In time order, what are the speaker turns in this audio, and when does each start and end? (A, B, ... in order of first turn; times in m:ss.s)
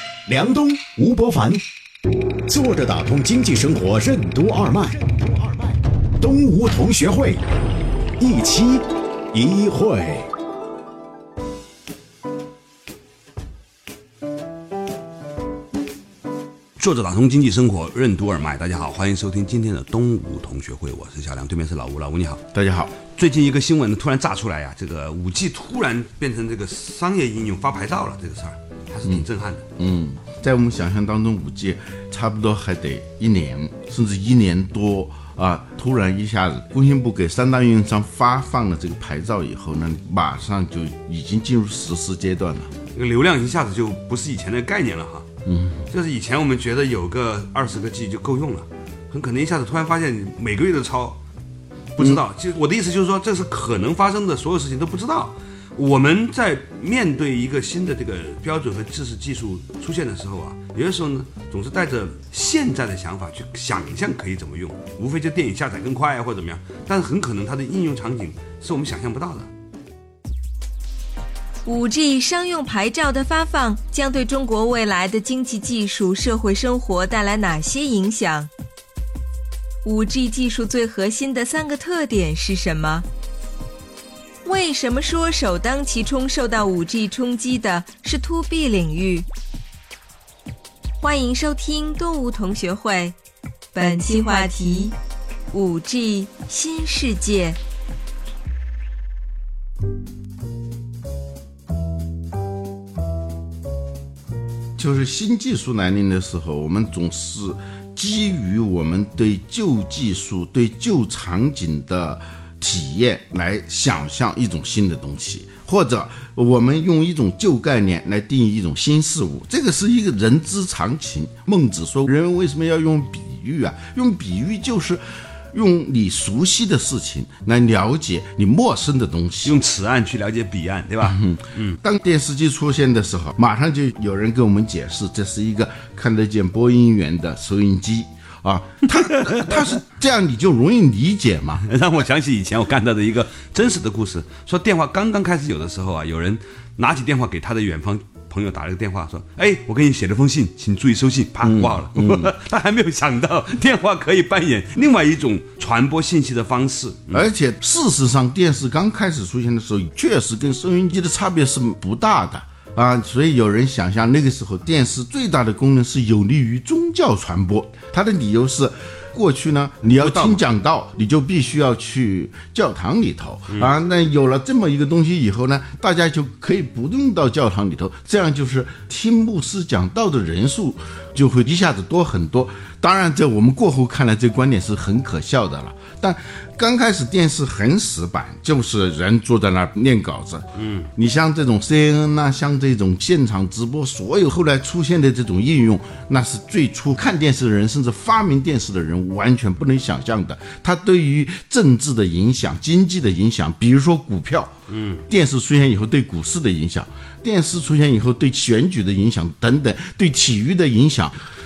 0:00.2-0:01.6 A
0:02.5-0:07.4 A
0:08.2-0:10.3 A
0:16.8-0:22.4 B
0:22.5-0:22.9 C
0:23.1-0:29.6 B
0:29.8-0:42.7 C
0:42.9-0:45.3 B
0:45.4-0:45.8 C
0:45.9-0:51.2 B
0:52.0-1:09.5 B
1:11.6-1:18.5 D
1:19.8-1:23.1 D
1:24.4-1:29.3 D
1:31.0-1:33.1 D
1:33.7-1:34.9 D
1:35.5-1:37.6 D
1:44.8-2:09.6 C
2:09.4-2:11.8 B
2:11.0-2:21.6 C
2:19.0-2:19.6 B
2:21.6-2:37.2 B
2:31.4-2:32.3 C
2:37.1-3:24.5 C
2:49.9-2:50.4 B
3:10.6-3:10.9 B
3:24.7-3:25.0 B
3:25.1-3:31.2 C